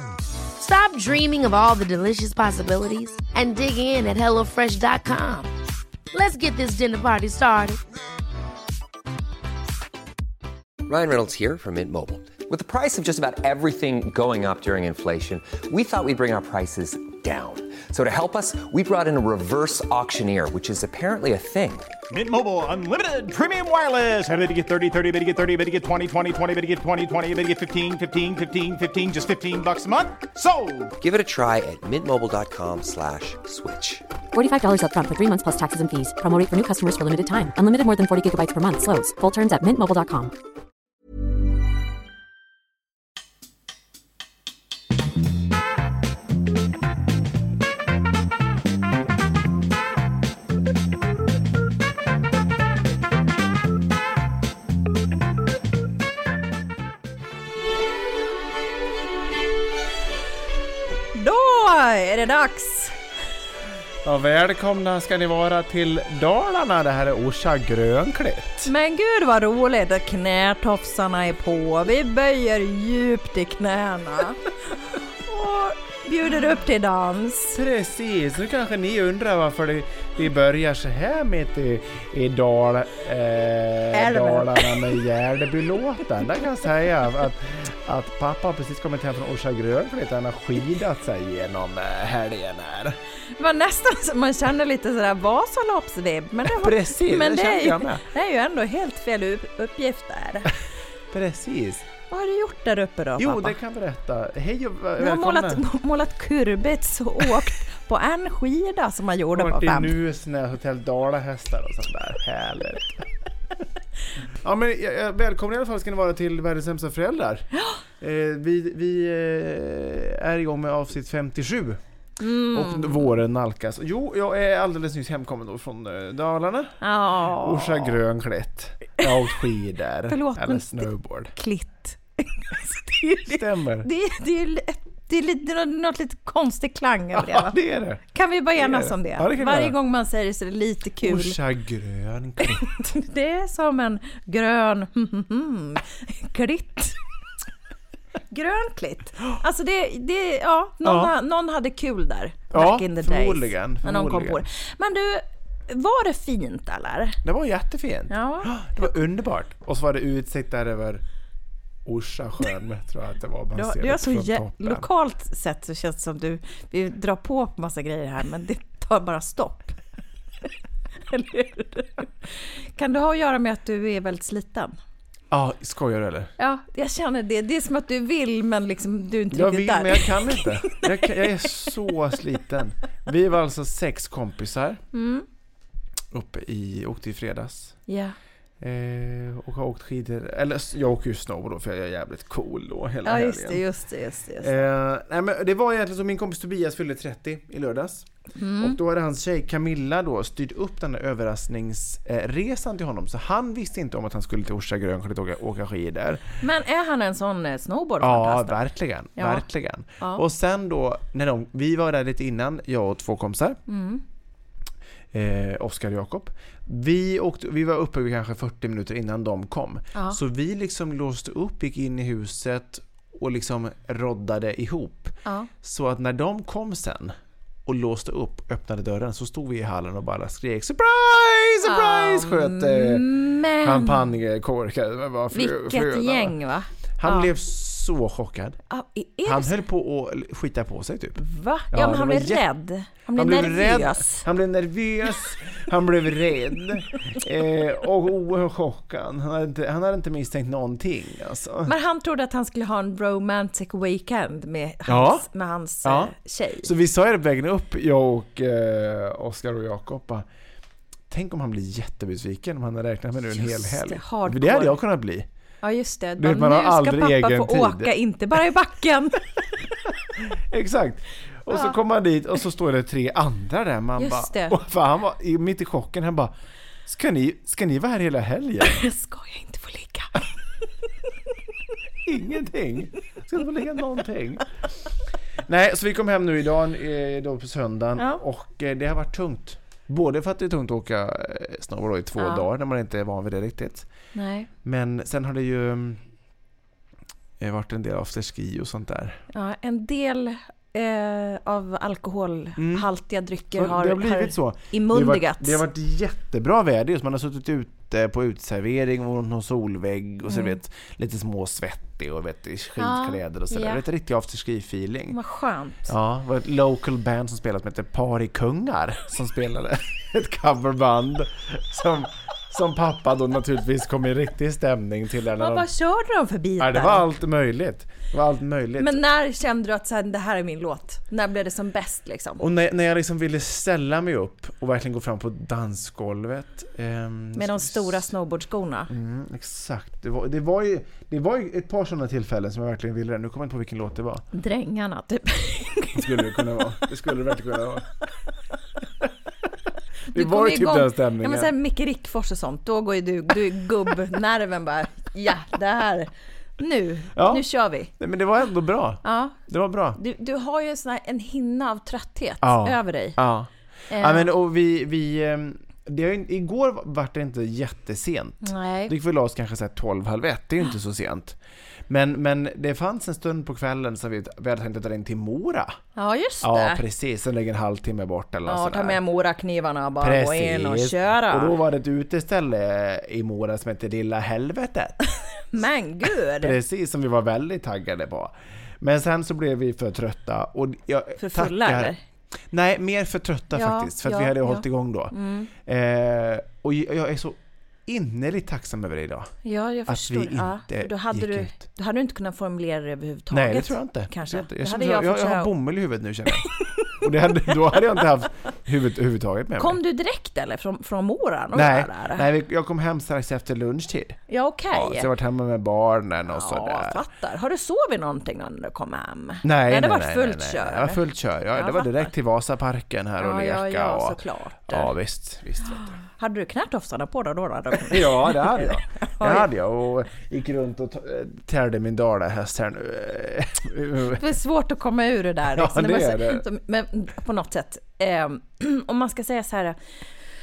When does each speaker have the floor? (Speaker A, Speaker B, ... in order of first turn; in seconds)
Speaker A: 0.6-5.5, 6.1-7.8
Speaker B: 10.8-21.9, 31.0-34.0
Speaker C: 22.1-30.9
Speaker D: 34.3-40.3
Speaker E: 61.1-62.9, 68.6-74.4, 74.9-77.6, 83.9-84.8, 93.4-100.5, 102.1-103.6, 105.0-109.9, 122.2-123.1, 126.8-127.9, 130.1-137.6, 138.1-141.4, 142.4-147.0, 148.3-157.2, 158.1-158.9, 163.5-169.8, 171.1-174.8, 176.4-181.4, 184.9-185.2, 187.9-188.1, 193.0-194.5, 198.4-198.8, 206.4-208.6, 209.2-209.4, 213.7-214.0, 231.6-234.1, 235.3-237.3, 238.7-239.6, 241.2-244.2, 251.7-256.7, 263.3-264.8, 265.6-269.3, 271.5-271.8, 274.0-274.6, 278.6-280.2, 292.2-292.4, 294.1-294.5, 299.3-305.6, 310.3-310.6, 312.8-313.8, 315.1-315.9, 325.4-327.1, 328.8-332.4, 337.4-338.9, 344.3-346.9, 350.1-357.9, 359.0-359.4, 359.9-363.2, 363.9-364.3, 368.4-368.9, 375.9-376.8, 378.4-381.6, 385.5-386.6, 391.2-392.0, 393.5-395.5, 399.4-405.5, 409.6-412.2, 414.3-415.1, 416.3-421.0, 421.5-422.1, 423.2-424.9, 426.0-429.5, 434.1-439.8
Speaker F: 64.0-68.7, 77.5-93.0, 96.5-98.0, 101.1-101.8, 103.2-105.6, 109.3-113.0, 114.3-117.5, 118.0-121.8, 122.5-126.8, 127.3-131.3, 133.2-133.9, 137.1-138.0, 138.6-139.8, 141.0-142.7, 150.8-151.1, 152.5-154.4, 157.2-161.0, 161.8-164.9, 175.3-176.3, 179.3-184.8, 186.1-187.8, 188.6-193.6, 194.4-198.1, 198.6-206.2, 208.0-213.6, 215.1-233.1, 233.6-236.4, 237.0-238.6, 239.2-241.2, 241.7-242.4, 243.1-251.7, 254.9-255.2, 255.8-260.3, 261.1-265.3, 266.2-267.9, 270.2-276.3, 276.9-278.8, 282.1-284.4, 285.4-293.9, 294.6-296.0, 297.4-299.2, 302.6-302.9, 303.5-315.2, 315.9-325.6, 326.6-329.0, 332.4-338.1, 338.9-344.2, 345.9-347.9, 350.1-351.5, 357.1-357.4, 358.0-360.0, 362.4-375.8, 376.4-379.0, 380.0-385.0, 386.4-391.9, 392.5-399.3, 399.9-401.6, 403.3-409.8, 411.5-414.2, 414.7-417.0, 419.4-426.0, 427.8-434.2, 435.5-436.4